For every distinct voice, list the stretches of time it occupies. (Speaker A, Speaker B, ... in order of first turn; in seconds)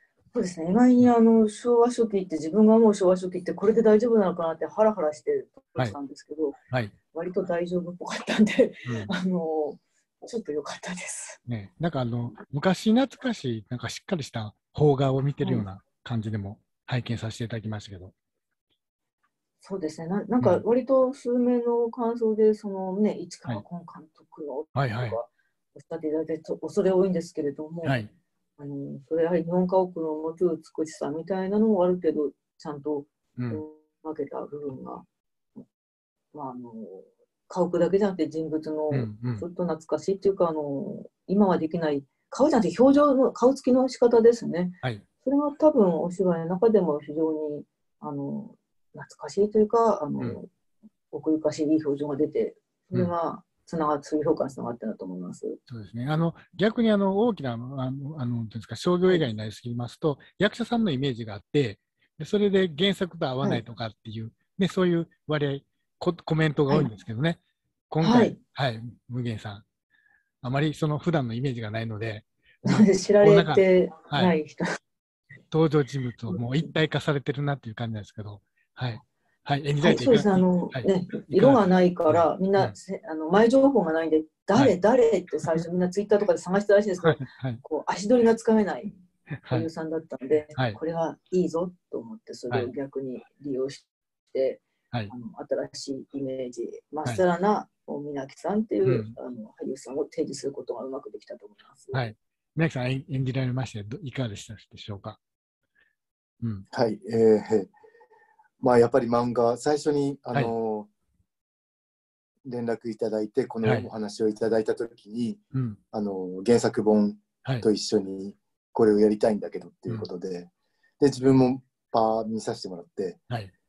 Speaker A: 0.3-6.6, 7.1-11.4, 15.4-15.7, 19.6-28.0, 28.6-35.0, 36.3-50.5, 51.1-55.6, 68.0-68.4, 72.7-74.7, 76.3-76.7, 79.8-89.0, 89.5-102.1
Speaker B: 8.9-9.1, 11.5-18.1, 20.4-20.6, 24.8-25.2, 27.9-28.1, 33.4-33.6, 38.9-39.5, 55.7-69.6, 70.4-74.3, 75.5-82.8, 87.0-87.6, 89.4-89.7, 98.8-99.1, 101.9-105.2, 113.6-113.9, 115.5-115.8
Speaker C: 106.7-107.7, 108.6-110.9, 112.5-115.4, 115.9-123.2